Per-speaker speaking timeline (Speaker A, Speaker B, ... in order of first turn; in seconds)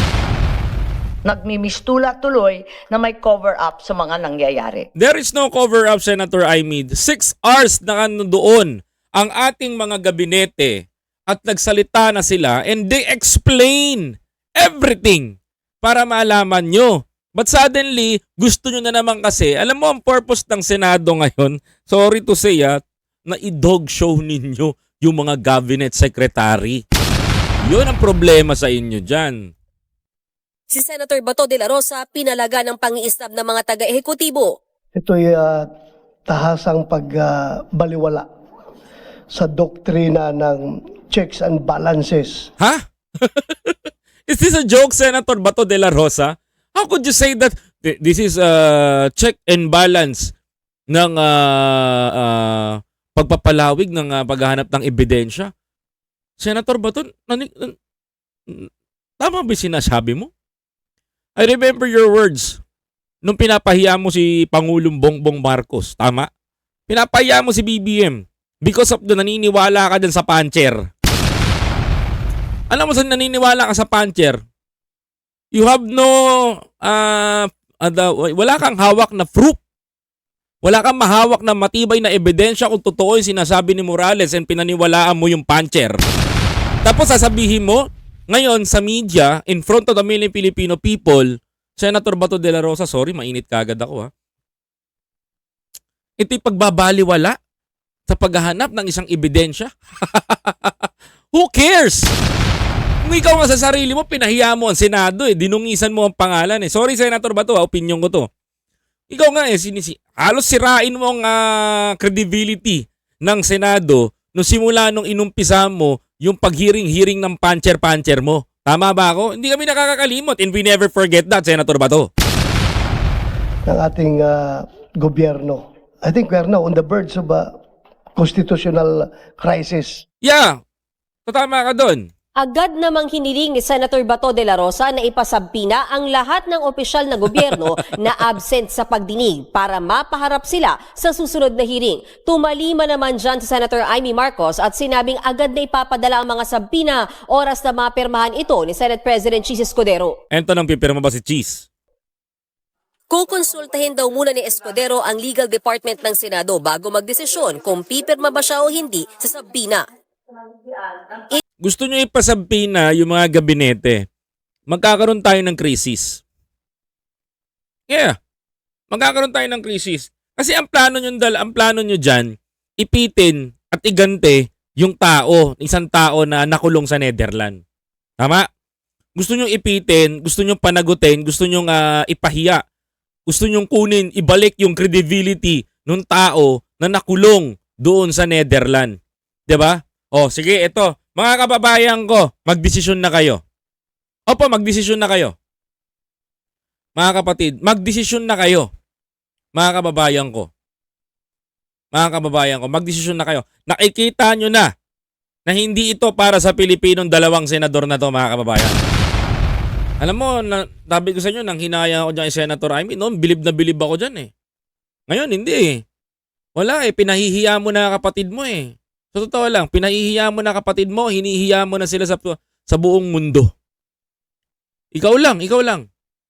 Speaker A: 1.2-4.9
Speaker B: 5.0-26.8, 27.7-29.5, 42.6-50.3, 50.9-55.5, 56.4-57.7, 59.2-60.3, 61.4-62.6, 63.2-66.3, 66.9-70.8, 72.7-74.4, 75.5-79.6, 80.6-86.0, 86.8-94.1, 96.2-97.3, 98.1-102.1, 103.0-108.3, 109.1-122.1, 130.2-130.6, 131.3-132.1, 150.3-151.7, 161.6-164.0, 164.7-166.2, 167.9-168.1, 168.9-177.6, 178.2-178.4, 179.2-182.6, 183.3-188.9, 189.5-193.4, 194.3-195.3, 197.0-198.7, 199.6-200.5, 201.9-204.7, 205.5-208.8, 210.0-214.3, 215.1-215.8, 216.6-223.5, 224.9-225.8
Speaker C: 30.7-34.5, 132.4-150.2, 153.1-159.8
Speaker D: 35.0-35.7, 36.3-38.2, 39.3-42.5, 123.7-127.6, 128.2-130.0